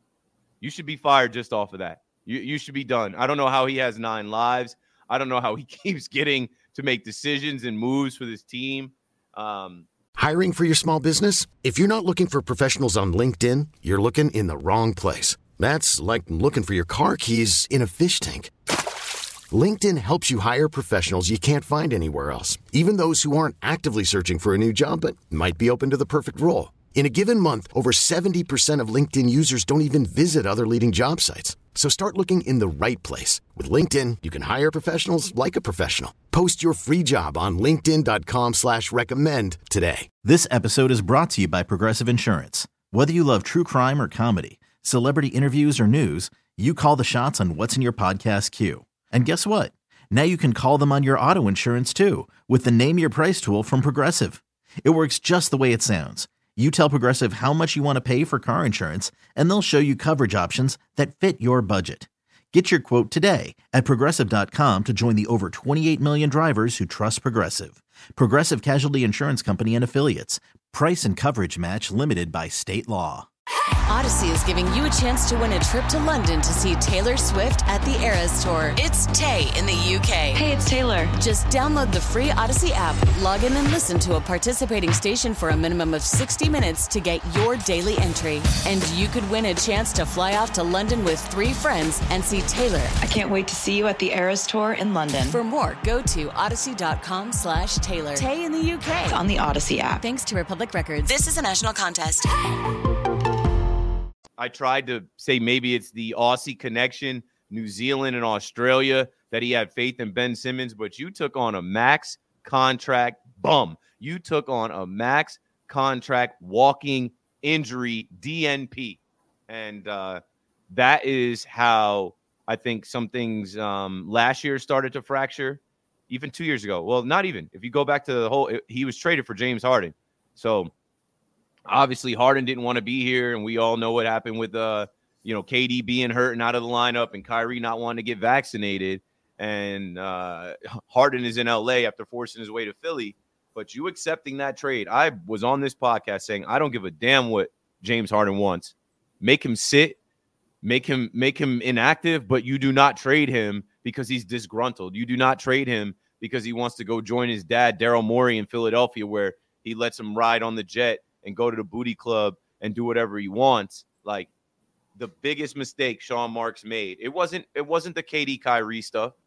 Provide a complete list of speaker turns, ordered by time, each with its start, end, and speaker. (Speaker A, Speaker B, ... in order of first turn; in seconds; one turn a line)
Speaker A: 0.6-9.8
Speaker B: 10.2-18.5
Speaker B: 19.5-40.1
Speaker C: 40.2-73.3
Speaker D: 73.9-80.4
Speaker E: 80.3-81.1
Speaker D: 81.2-92.9
Speaker E: 93.0-95.4
Speaker D: 95.3-99.2
Speaker E: 99.1-100.0
Speaker D: 100.0-102.3
Speaker A: 104.4-130.7
Speaker A: 131.7-150.0
Speaker A: 150.6-164.3
Speaker A: 164.9-169.1